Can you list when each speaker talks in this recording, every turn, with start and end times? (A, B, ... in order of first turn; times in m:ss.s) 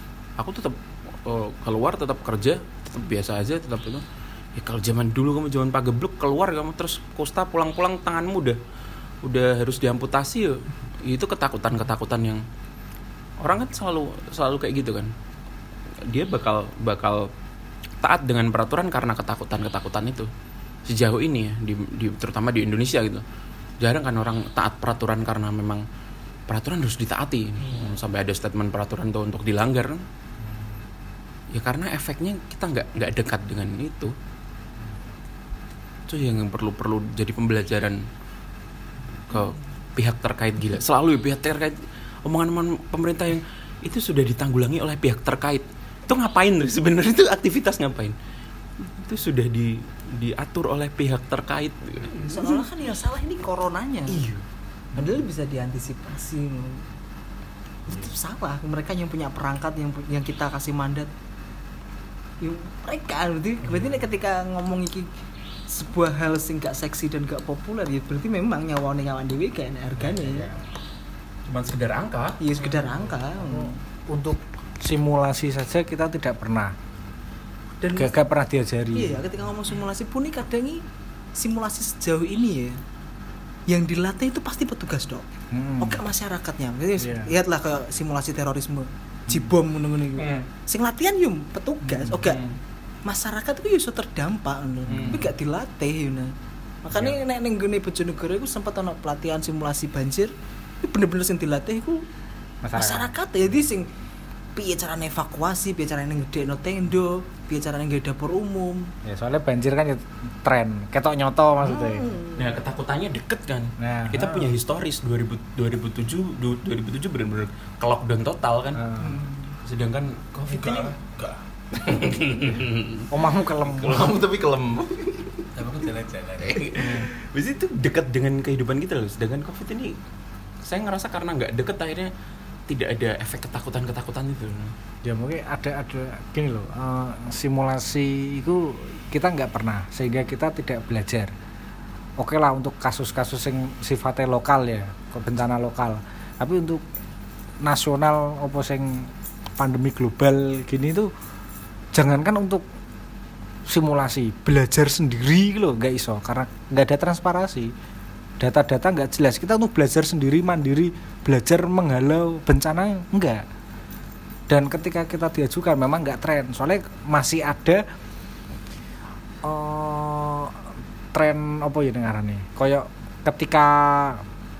0:00.4-0:04.0 A
0:04.6-0:08.6 A
0:09.2-0:12.4 A
0:13.4-0:15.1 A
0:16.0-0:17.3 A
0:18.0-0:20.3 A
0:20.8-0:23.2 A
0:23.8-0:25.8 A
0:26.5-0:30.0 A
0:30.4-0:30.8 B
0:31.5-0:34.1 A
0:36.1-0:38.0 A
0:39.3-0:48.2 A
0:48.8-0:52.6 A
0:52.1-0:54.2 C
0:54.1-0:54.4 A
0:55.0-0:55.2 B
0:55.0-0:56.8 C
0:57.9-1:01.1 C
1:02.4-1:05.1 C
1:05.7-1:10.5 C
1:11.5-1:12.4 A
1:12.4-1:13.8 C
1:13.1-1:16.7 B
1:17.8-1:18.1 C
1:17.9-1:19.2 B
1:18.9-1:20.8 C
1:21.4-1:22.8 C
1:23.7-1:25.2 C
1:25.5-1:26.0 B
1:25.8-1:32.4 C
1:27.0-1:27.3 B
1:30.2-1:30.5 A
1:31.8-1:32.2 B
1:32.2-1:32.5 A
1:33.0-1:36.3 C
1:34.9-1:35.2 A
1:36.8-1:42.0 C
1:42.6-1:43.1 B
1:42.7-1:43.9 C
1:44.6-1:48.9 C
1:49.0-1:52.0 B
1:51.6-1:52.5 C
1:52.4-1:58.8 A
1:53.8-1:54.5 B
1:58.7-1:59.2 B
1:59.0-1:59.5 C
1:59.6-2:00.9 A
2:00.4-2:01.4 D
2:01.7-2:03.1 A
2:03.1-2:04.2 B
2:03.6-2:05.5 A
2:05.6-2:06.7 D
2:06.4-2:09.9 A
2:06.8-2:07.1 B
2:10.6-2:12.1 A
2:12.7-2:14.7 A
2:15.0-2:21.3 B
2:22.2-2:26.8 B
2:27.6-2:31.1 B
2:31.9-2:32.6 B
2:33.6-2:37.7 B
2:38.4-2:43.4 B
2:44.5-2:47.8 B
2:49.4-2:50.6 B
2:51.1-2:54.2 B